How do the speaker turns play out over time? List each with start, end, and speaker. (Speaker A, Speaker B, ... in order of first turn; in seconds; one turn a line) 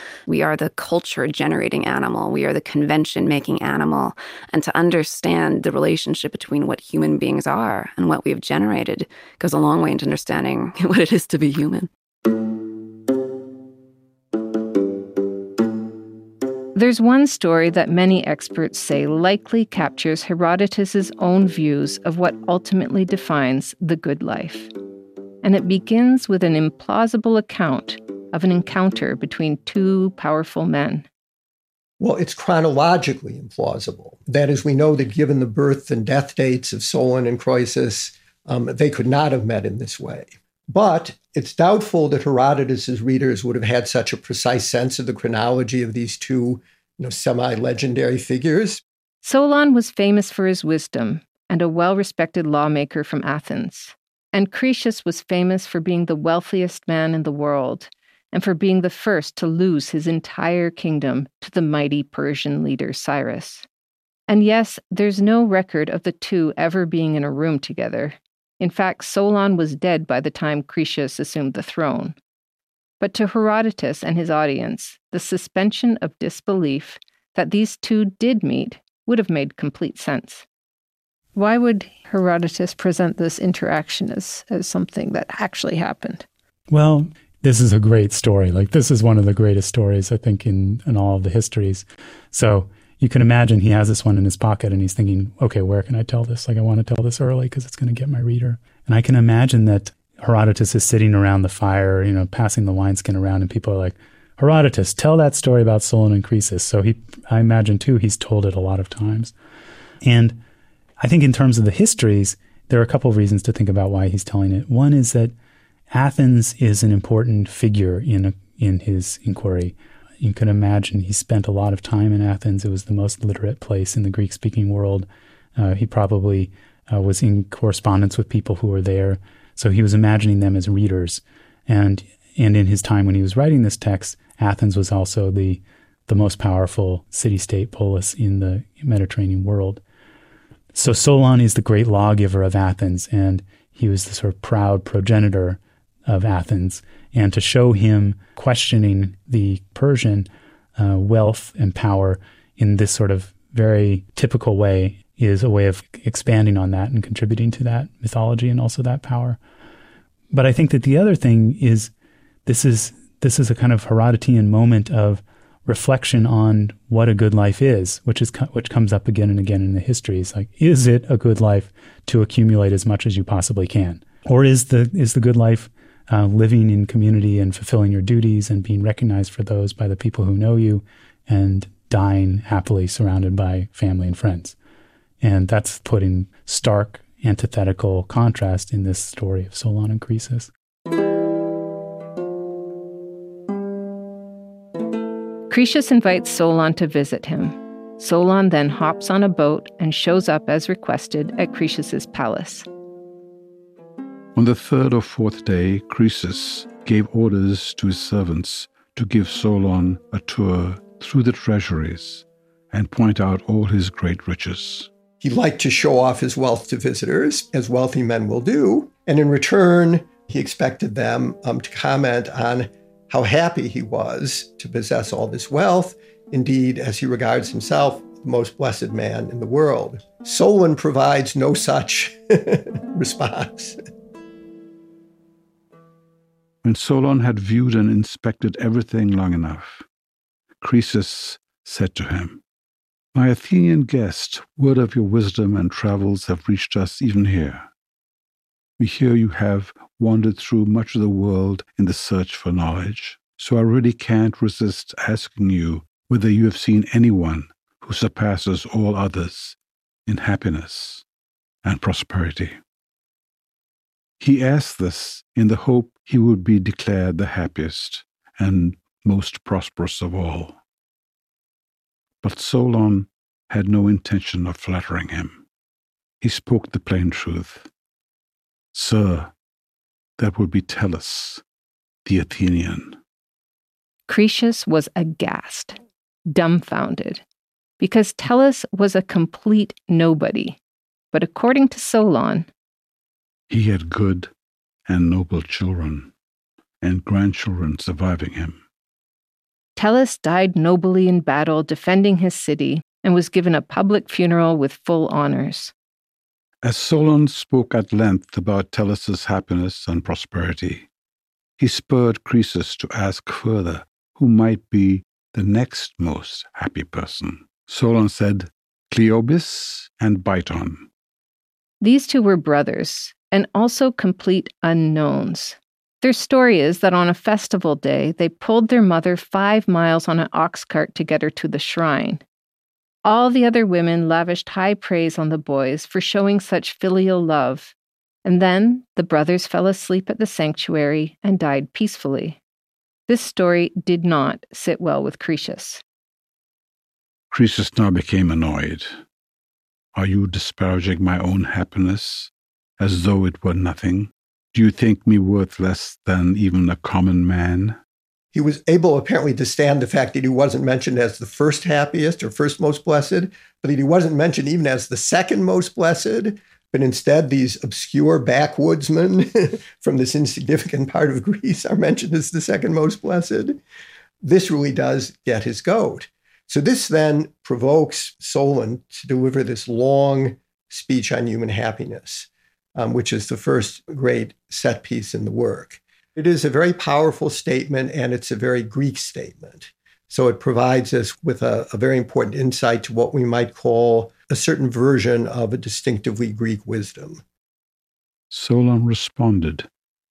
Speaker A: 0.3-11.9
Speaker B: 16.7-24.7
Speaker B: 25.4-31.1
Speaker C: 32.0-48.8
Speaker B: 49.2-63.6
Speaker B: 64.3-72.2
Speaker B: 73.0-80.4
Speaker B: 81.3-86.2
Speaker D: 86.7-109.3
Speaker D: 110.0-110.4
Speaker D: 111.0-115.3
Speaker D: 115.9-139.8
Speaker D: 140.7-159.4
Speaker D: 160.3-161.9
Speaker D: 162.4-184.6
Speaker D: 185.2-190.5
Speaker B: 195.5-202.7
Speaker E: 204.3-214.9
Speaker C: 215.2-233.8
Speaker E: 236.6-239.8
Speaker E: 240.6-242.4
Speaker E: 243.1-247.7
Speaker E: 248.8-261.0
Speaker E: 261.6-262.6
Speaker E: 264.2-270.6
Speaker E: 272.2-275.4
Speaker E: 276.2-277.7
Speaker E: 278.7-279.3
Speaker E: 280.2-281.4
Speaker E: 282.1-283.0
Speaker B: 284.1-287.2
Speaker B: 287.8-290.6
Speaker B: 291.1-292.5
Speaker E: 293.5-294.3
Speaker E: 294.9-296.1
Speaker E: 296.8-298.6
Speaker B: 299.8-305.7
Speaker E: 306.6-310.9
Speaker E: 311.6-320.9
Speaker B: 321.8-332.2
Speaker B: 333.0-342.4
Speaker B: 343.1-345.8
Speaker E: 347.3-349.0
Speaker E: 349.9-357.8
Speaker C: 358.3-373.6
Speaker C: 374.2-397.2
Speaker E: 398.3-399.7